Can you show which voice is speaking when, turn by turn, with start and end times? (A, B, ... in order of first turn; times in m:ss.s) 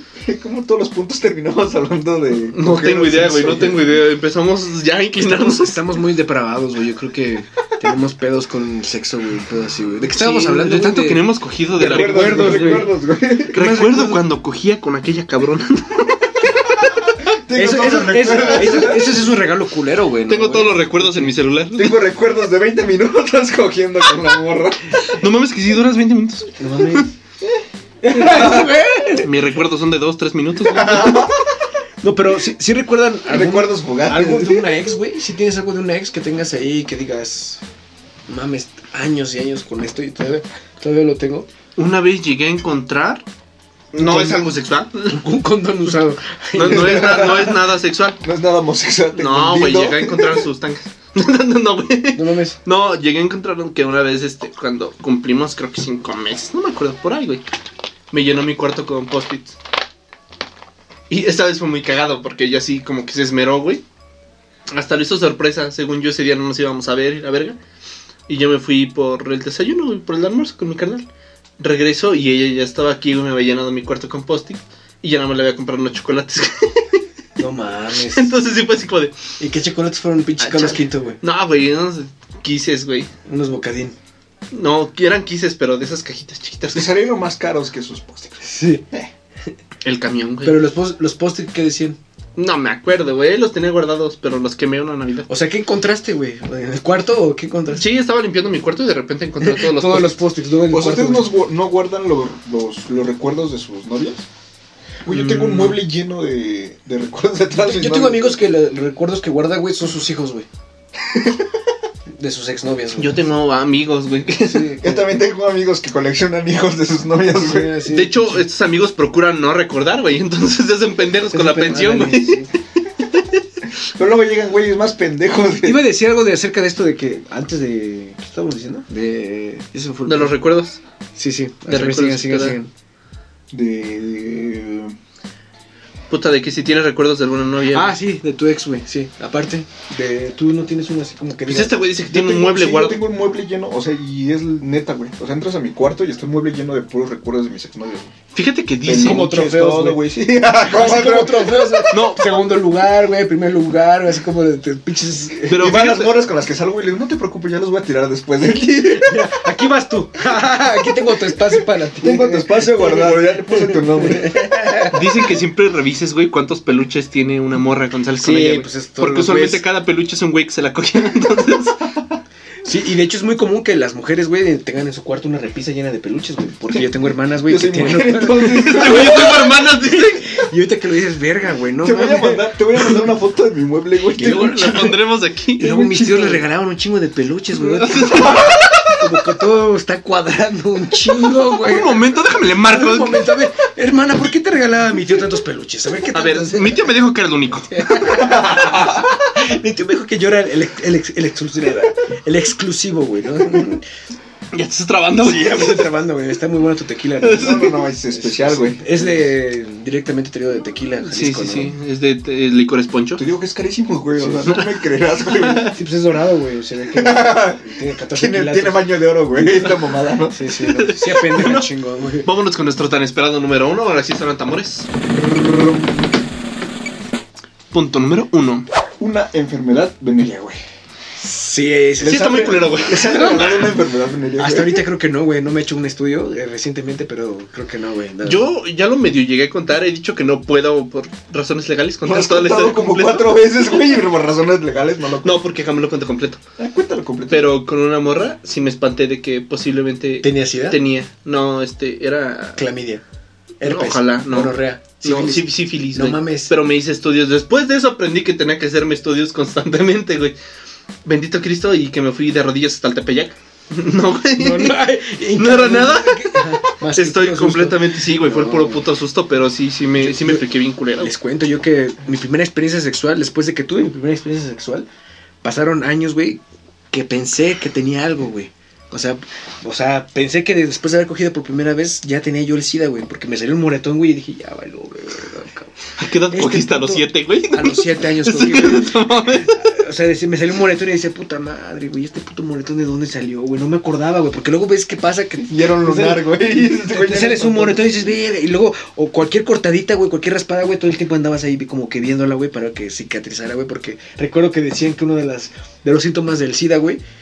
0:00.2-0:03.8 A
0:02.5-0:05.8 B
0:05.2-0:12.9 C
0:10.1-0:12.9 B
0:11.8-0:13.6 A
0:13.5-0:14.2 C
0:13.5-0:16.6 B
0:17.3-0:19.2 A
0:17.5-0:21.3 C
0:20.3-0:22.0 B
0:21.8-0:25.0 A
0:25.1-0:27.1 B
0:26.6-0:27.1 C
0:28.0-0:29.3 C
0:28.3-0:28.7 A
0:29.2-0:31.3 B
0:30.6-0:31.4 A
0:32.0-0:37.6 C
0:33.3-0:34.8 A
0:38.3-0:41.5 C
0:41.8-0:43.2 B
0:43.9-0:45.2 B
0:44.0-0:44.5 C
0:45.1-0:47.4 C
0:46.5-0:48.2 B
0:46.6-0:47.6 A
0:48.2-0:50.5 A
0:49.2-0:57.4 B
0:52.2-0:52.6 C
0:58.1-0:59.6 B
1:01.1-1:03.8 B
1:04.7-1:07.6 B
1:08.3-1:11.0 B
1:11.6-1:17.0 B
1:17.4-1:18.3 C
1:18.0-1:19.2 B
1:19.4-1:21.2 C
1:20.4-1:23.1 B
1:23.3-1:24.0 C
1:24.5-1:26.9 B
1:26.7-1:29.1 A
1:28.4-1:28.8 C
1:29.8-1:30.6 B
1:30.4-1:32.0 C
1:32.4-1:35.3 B
1:35.3-1:37.9 C
1:37.7-1:40.2 B
1:39.4-1:41.3 C
1:40.7-1:44.2 A
1:45.0-1:48.4 A
1:45.1-1:45.8 B
1:47.6-1:50.5 C
1:51.1-1:51.5 A
1:52.2-1:53.3 C
1:53.0-1:54.8 B
1:54.5-1:55.1 C
1:54.8-1:57.8 A
1:57.3-1:58.4 C
1:57.9-2:02.4 B
2:01.3-2:02.5 C
2:03.8-2:05.8 A
2:05.6-2:10.4 C
2:10.0-2:10.8 B
2:11.2-2:12.7 C
2:11.7-2:12.6 B
2:13.5-2:15.0 A
2:16.1-2:18.0 B
2:17.7-2:21.9 C
2:21.5-2:23.0 B
2:22.1-2:28.1 A
2:28.3-2:29.3 B
2:28.8-2:31.9 A
2:28.9-2:35.6 C
2:31.9-2:32.4 B
2:35.5-2:36.1 B
2:35.5-2:39.2 A
2:38.8-2:45.1 C
2:42.0-2:44.8 A
2:44.9-2:51.8 B
2:48.2-2:49.6 C
2:52.6-3:03.1 C
2:57.4-2:59.6 A
2:58.3-3:00.4 B
3:01.8-3:04.7 A
3:04.1-3:05.0 C
3:04.2-3:05.7 B
3:05.6-3:16.9 C
3:05.6-3:06.4 A
3:07.6-3:09.0 B
3:08.0-3:08.5 A
3:11.6-3:13.2 B
3:16.1-3:17.8 B
3:17.7-3:23.8 C
3:18.1-3:19.1 A
3:24.5-3:25.8 B
3:25.2-3:31.8 C
3:27.2-3:27.8 B
3:27.4-3:29.0 A
3:31.1-3:33.2 B
3:33.2-3:35.8 A
3:34.2-3:34.4 C
3:35.3-3:35.7 B
3:35.7-3:42.3 C
3:36.9-3:37.6 A
3:38.1-3:40.4 A
3:40.7-3:41.7 B
3:42.2-3:44.9 B
3:45.2-3:46.1 A
3:47.7-3:48.7 B
3:49.0-3:50.6 A
3:50.2-3:50.6 C
3:51.2-3:53.7 C
3:52.0-3:53.7 B
3:52.0-3:54.8 A
3:54.4-3:58.5 C
3:58.2-4:03.4 B
4:02.0-4:05.4 A
4:05.2-4:06.4 B
4:06.6-4:07.5 A
4:07.3-4:12.6 B
4:10.2-4:10.8 C
4:12.6-4:13.0 C
4:13.6-4:16.6 C
4:13.6-4:20.4 B
4:21.0-4:24.8 B
4:24.4-4:28.9 C
4:25.4-4:31.1 B
4:30.0-4:30.5 C
4:31.0-4:34.9 C
4:35.4-5:07.0 C
4:46.0-4:49.6 B
4:55.4-4:58.0 A